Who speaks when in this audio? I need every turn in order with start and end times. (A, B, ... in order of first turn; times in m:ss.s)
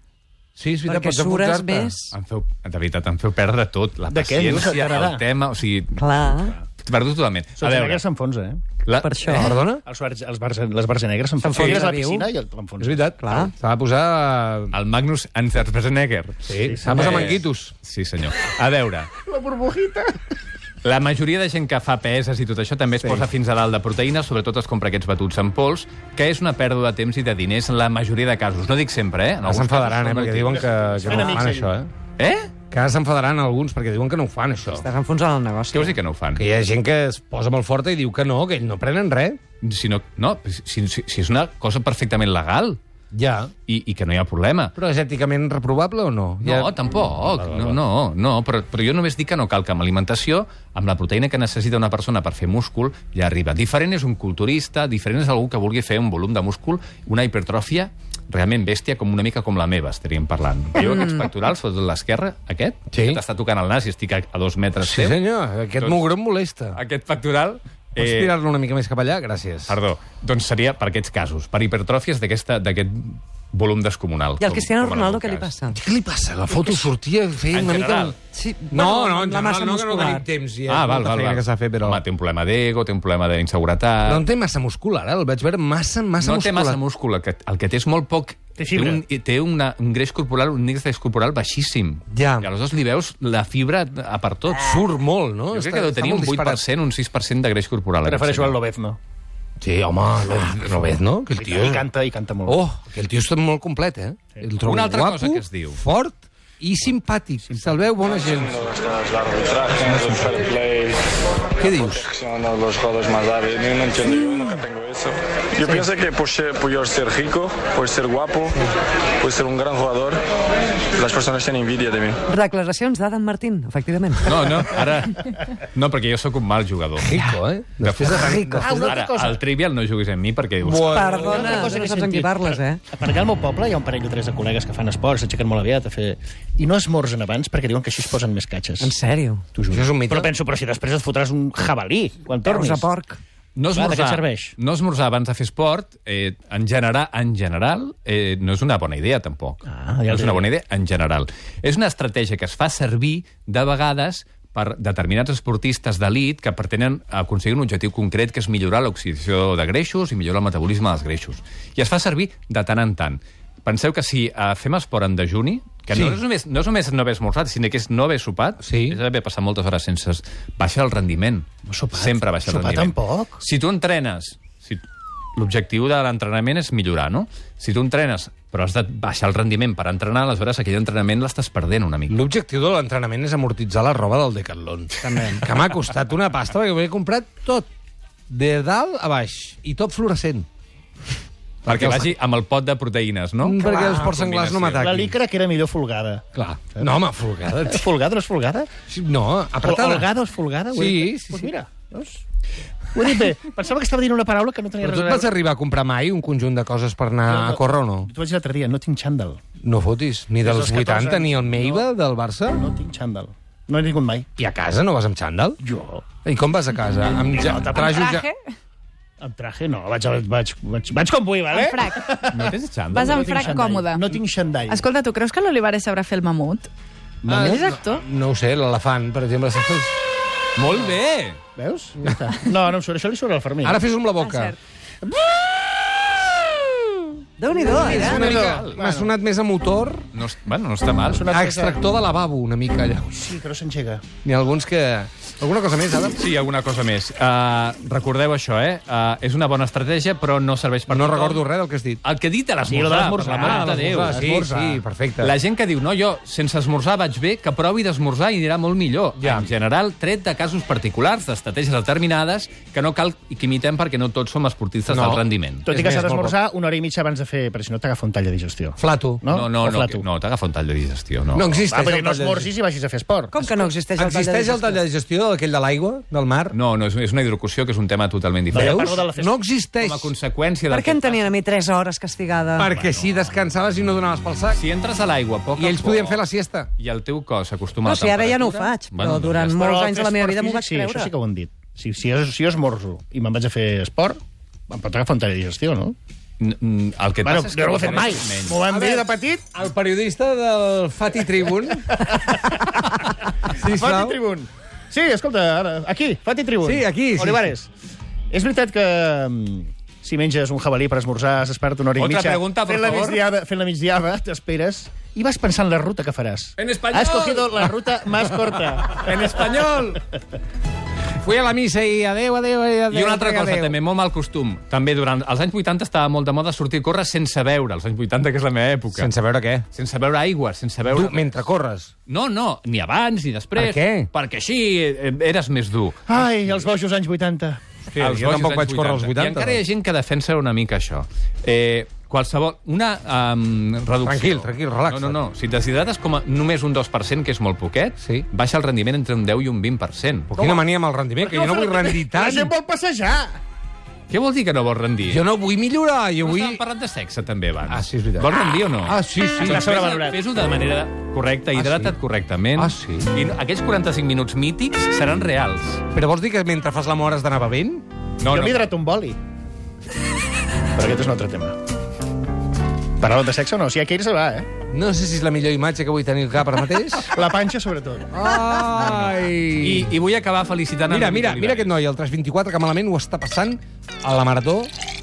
0:00.6-0:02.0 A
0:00.8-0:02.1 B
0:02.1-0:06.0 C
0:04.1-0:05.2 D
0:06.0-0:06.6 B
0:06.8-0:08.0 C
0:07.6-0:08.6 D
0:08.8-0:09.6 C
0:09.0-0:09.6 B
0:09.3-0:13.2 D
0:09.4-0:09.8 A
0:11.4-0:12.3 B
0:11.5-0:12.2 A
0:12.8-0:14.8 A
0:13.2-0:13.5 B
0:14.7-0:19.1 C
0:16.5-0:17.7 A
0:16.6-0:17.4 D
0:19.2-0:20.2 D
0:20.8-0:30.7 C
0:23.0-0:23.3 A
0:29.4-0:31.9 A
0:30.5-0:31.7 D
0:32.2-0:32.5 C
0:32.7-0:34.9 A
0:34.7-0:36.0 B
0:35.7-0:36.4 C
0:36.4-0:39.4 A
0:39.6-0:42.8 C
0:43.1-0:43.5 A
0:43.7-0:44.7 C
0:44.8-0:47.8 A
0:46.4-1:05.2 C
1:00.8-1:01.2 B
1:02.9-1:03.2 A
1:04.8-1:06.8 A
1:05.8-1:06.0 C
1:06.7-1:08.3 C
1:08.0-1:09.8 A
1:09.7-1:15.5 C
1:14.4-1:15.8 B
1:15.7-1:18.2 A
1:17.5-1:18.2 C
1:18.3-1:20.2 B
1:18.7-1:22.0 A
1:20.7-1:24.3 C
1:24.0-1:26.8 A
1:26.2-1:34.8 C
1:28.6-1:29.0 D
1:32.1-1:32.5 A
1:34.5-1:36.6 A
1:35.5-1:38.6 C
1:38.0-1:39.0 D
1:39.6-1:41.9 A
1:41.4-1:42.6 D
1:42.5-1:48.7 A
1:44.6-1:45.8 C
1:49.2-1:50.9 E
1:51.6-1:52.1 A
1:52.2-1:55.1 E
1:55.6-1:55.9 A
1:55.7-1:58.5 E
1:59.2-2:00.2 E
2:01.0-2:02.1 E
2:02.3-2:04.4 B
2:04.2-2:07.2 C
2:07.0-2:08.9 A
2:07.8-2:11.1 C
2:08.4-2:09.4 D
2:08.6-2:08.9 B
2:10.6-2:11.7 A
2:10.9-2:12.8 B
2:11.0-2:18.9 D
2:18.8-2:19.4 B
2:19.6-2:22.9 D
2:19.7-2:20.3 A
2:22.4-2:23.2 B
2:23.6-2:54.8 C
2:23.7-2:24.6 D
2:29.7-2:30.5 D
2:45.9-2:46.2 A
2:48.6-2:49.0 A
2:51.7-2:53.4 D
2:55.4-3:02.2 C
3:02.1-3:07.7 A
3:08.3-3:10.5 A
3:11.6-3:14.9 C
3:11.7-3:12.1 A
3:13.4-3:15.2 A
3:13.7-3:14.0 D
3:14.8-3:17.0 D
3:16.3-3:17.9 A
3:17.6-3:18.7 D
3:18.9-3:20.1 A
3:19.6-3:22.2 D
3:20.7-3:21.5 A
3:22.9-3:25.3 D
3:24.8-3:28.1 A
3:27.3-3:29.4 D
3:29.6-3:32.6 A
3:30.4-3:31.9 D
3:32.5-3:34.3 D
3:34.4-3:35.6 A
3:35.6-3:36.0 D
3:36.2-3:38.3 A
3:37.3-3:38.2 D
3:37.9-3:38.4 F
3:39.2-3:44.9 D
3:41.7-3:42.0 F
3:42.3-3:43.5 C
3:43.0-3:44.0 F
3:44.7-3:46.7 F
3:47.2-3:50.0 A
3:47.4-3:48.0 F
3:50.6-3:51.4 C
3:51.6-3:53.8 D
3:53.6-3:54.6 A
3:54.2-3:54.5 F
3:55.0-3:55.6 D
3:57.4-3:58.3 B
3:57.6-4:00.0 A
3:57.9-3:58.8 C
3:57.9-3:59.1 D
4:00.1-4:01.3 C
4:01.1-4:01.8 D
4:01.3-4:03.2 A
4:03.1-4:04.0 D
4:04.2-4:06.2 A
4:06.2-4:11.4 C
4:10.9-4:12.0 A
4:12.0-4:14.2 C
4:12.7-4:14.8 D
4:13.2-4:15.4 A
4:15.2-4:25.7 C
4:19.2-4:19.5 A
4:24.9-4:26.3 A
4:25.7-4:30.0 D
4:28.8-4:29.2 A
4:29.3-4:31.6 C
4:31.3-4:32.5 A
4:31.7-4:33.6 D
4:33.3-4:34.8 B
4:34.0-4:36.6 A
4:36.5-4:39.0 C
4:38.5-4:40.1 A
4:38.5-4:39.4 D
4:39.8-4:41.3 C
4:40.7-4:42.7 B
4:42.6-4:44.6 A
4:42.7-4:43.4 C
4:44.5-4:46.2 C
4:45.6-4:46.7 A
4:46.8-4:49.7 C
4:47.9-4:51.1 B
4:49.6-4:56.0 D
4:56.4-4:58.6 C
4:57.2-4:59.5 D
4:58.7-5:02.0 A
5:01.9-5:07.7 D
5:03.5-5:04.2 A
5:06.6-5:07.5 A
5:08.3-5:19.5 D
5:12.0-5:13.2 C
5:16.6-5:17.8 C
5:18.4-5:20.0 C
5:21.2-5:23.8 A
5:22.9-5:29.1 C
5:28.9-5:29.7 A
5:29.7-5:31.4 C
5:30.9-5:31.9 A
5:32.1-5:36.6 C
5:33.6-5:34.1 A
5:36.1-5:37.6 D
5:37.9-5:39.6 A
5:38.0-5:50.4 C
5:44.0-5:45.2 A
5:48.0-5:48.3 A
5:50.3-5:52.5 A
5:51.2-5:53.4 D
5:54.1-5:55.2 C
5:55.1-5:56.6 A
5:56.2-6:05.8 C
5:57.7-5:59.7 A
5:59.4-6:00.2 D
6:01.6-6:02.0 A
6:02.6-6:03.1 A
6:05.9-6:07.8 A
6:08.2-6:08.7 C
6:08.3-6:09.2 D
6:10.8-6:11.6 D
6:13.0-6:14.5 D
6:14.7-6:17.1 A
6:17.1-6:18.1 D
6:18.1-6:19.9 A
6:19.6-6:21.7 C
6:20.9-6:24.7 A